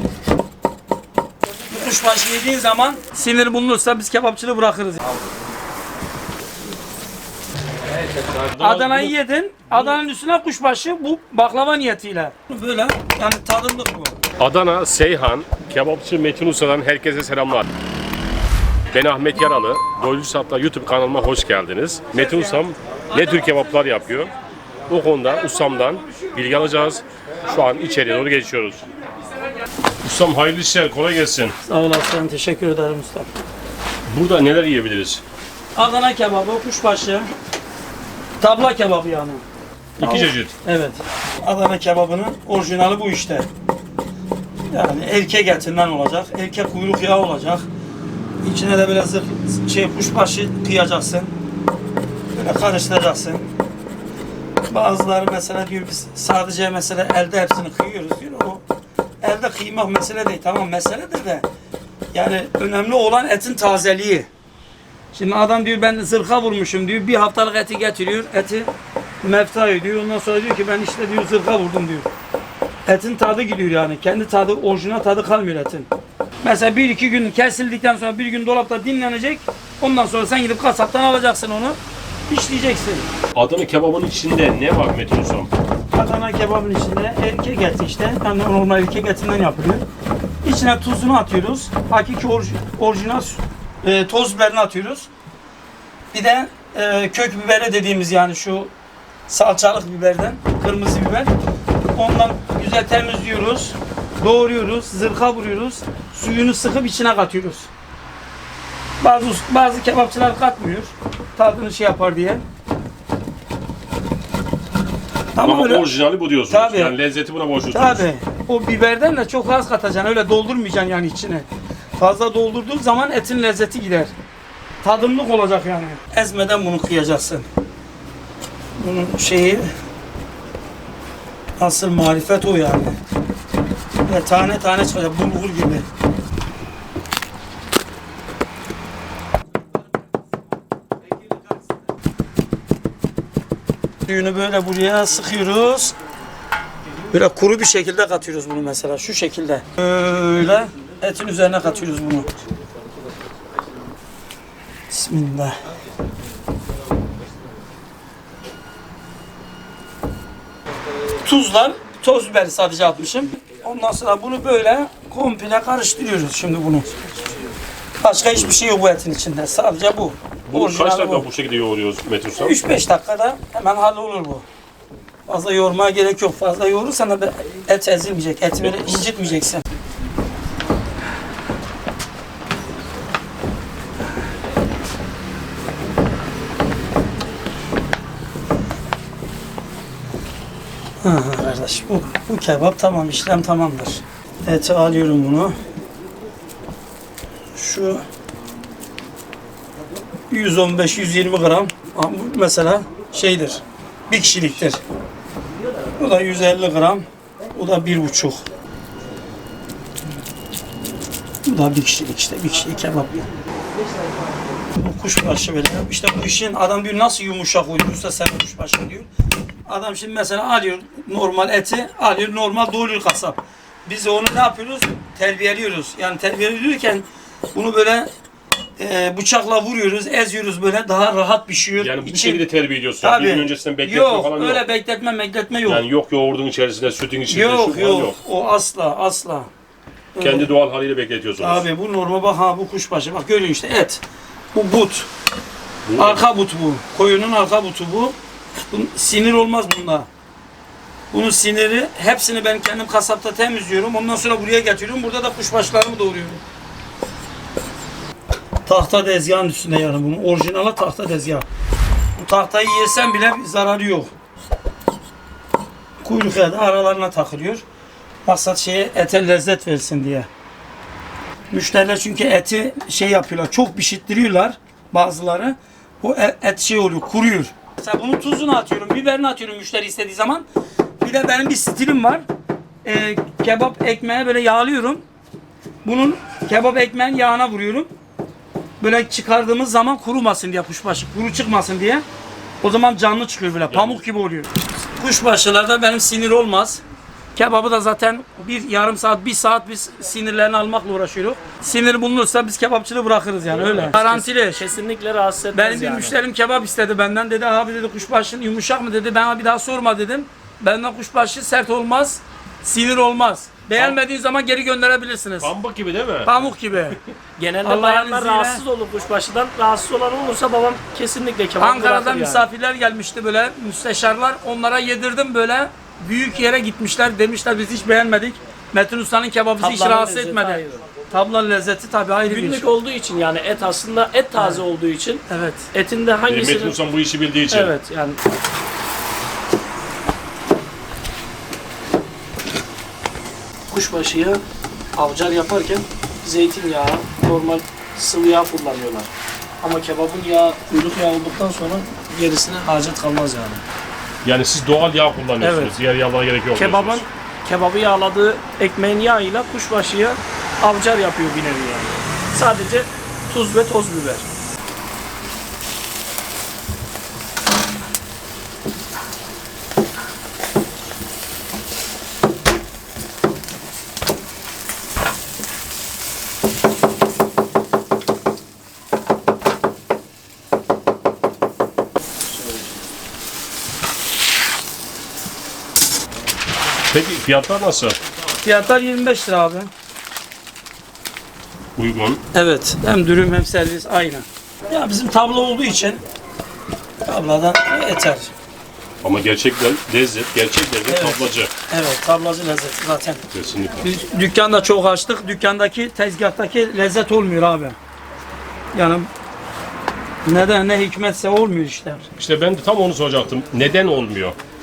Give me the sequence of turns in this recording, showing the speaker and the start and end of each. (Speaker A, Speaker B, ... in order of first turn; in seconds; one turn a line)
Speaker A: 1.7-5.0
Speaker B: 8.4-9.1
Speaker A: 8.6-14.2
Speaker B: 14.4-17.7
Speaker B: 18.9-24.3
Speaker A: 22.1-23.6
Speaker B: 24.9-28.9
Speaker B: 30.0-31.5
Speaker A: 31.6-33.3
Speaker B: 34.1-35.2
Speaker A: 35.7-37.3
Speaker A: 38.4-39.4
Speaker B: 40.0-40.5
Speaker A: 40.0-43.5
Speaker A: 44.7-47.6
Speaker A: 48.4-51.3
Speaker A: 52.3-53.5
Speaker A: 54.6-58.6
Speaker A: 59.2-61.4
Speaker A: 62.1-64.3
Speaker A: 65.1-68.7
Speaker A: 69.2-72.1
Speaker A: 72.8-75.9
Speaker A: 76.4-81.8
Speaker A: 82.3-83.1
Speaker B: 83.3-85.5
Speaker A: 85.9-89.8
Speaker A: 90.4-95.1
Speaker A: 96.1-98.7
Speaker A: 99.3-101.3
Speaker A: 101.9-107.7
Speaker A: 109.0-112.4
Speaker A: 115.3-115.9
Speaker B: 115.4-118.0
Speaker A: 116.5-116.9
Speaker A: 117.7-124.1
Speaker A: 124.8-127.5
Speaker A: 128.8-129.7
Speaker A: 131.6-132.9
Speaker A: 134.1-135.8
Speaker A: 144.1-145.9
Speaker A: 147.1-152.3
Speaker A: 154.9-155.6
Speaker A: 161.2-167.0
Speaker A: 168.0-171.2
Speaker B: 170.5-172.6
Speaker A: 172.3-174.4
Speaker A: 175.2-179.6
Speaker A: 191.0-195.6
Speaker A: 197.5-198.0
Speaker A: 200.3-204.8
Speaker A: 206.0-208.4
Speaker A: 211.4-213.2
Speaker A: 214.7-219.1
Speaker A: 219.7-228.1
Speaker A: 228.8-232.4
Speaker B: 231.8-234.6
Speaker A: 233.0-235.8
Speaker B: 235.7-238.2
Speaker A: 237.3-239.5
Speaker A: 240.1-240.5
Speaker B: 240.2-241.6
Speaker A: 241.4-244.0
Speaker A: 244.5-245.1
Speaker B: 245.8-246.2
Speaker A: 246.0-248.2
Speaker A: 248.7-250.1
Speaker A: 251.1-256.4
Speaker A: 258.6-261.4
Speaker A: 262.2-264.1
Speaker A: 266.0-267.6
Speaker A: 268.2-270.3
Speaker A: 271.5-280.4
Speaker A: 281.0-282.2
Speaker A: 282.8-285.0
Speaker A: 285.8-287.9
Speaker A: 288.8-292.0
Speaker A: 292.6-296.8
Speaker B: 293.7-294.0
Speaker A: 297.3-304.6
Speaker B: 303.6-303.9
Speaker C: 303.6-306.1
Speaker A: 305.5-315.5
Speaker B: 315.4-316.3
Speaker A: 316.2-317.0
Speaker C: 317.4-322.4
Speaker A: 317.6-318.6
Speaker A: 321.6-332.7
Speaker C: 329.6-330.8
Speaker C: 332.3-336.8
Speaker A: 334.4-334.6
Speaker A: 335.3-335.7
Speaker B: 336.3-337.7
Speaker C: 337.5-338.2
Speaker C: 343.7-344.4
Speaker C: 344.9-349.1
Speaker C: 349.6-352.7
Speaker A: 352.6-353.6
Speaker B: 354.2-357.0
Speaker A: 355.4-355.8
Speaker C: 356.5-364.2
Speaker B: 386.9-388.0
Speaker A: 388.4-389.7
Speaker B: 391.8-392.2
Speaker A: 392.3-396.0
Speaker A: 397.0-398.3
Speaker B: 399.0-401.5
Speaker A: 400.9-403.2
Speaker B: 403.3-403.8
Speaker A: 403.8-407.8
Speaker A: 408.7-409.1
Speaker A: 410.2-412.1
Speaker B: 412.2-414.4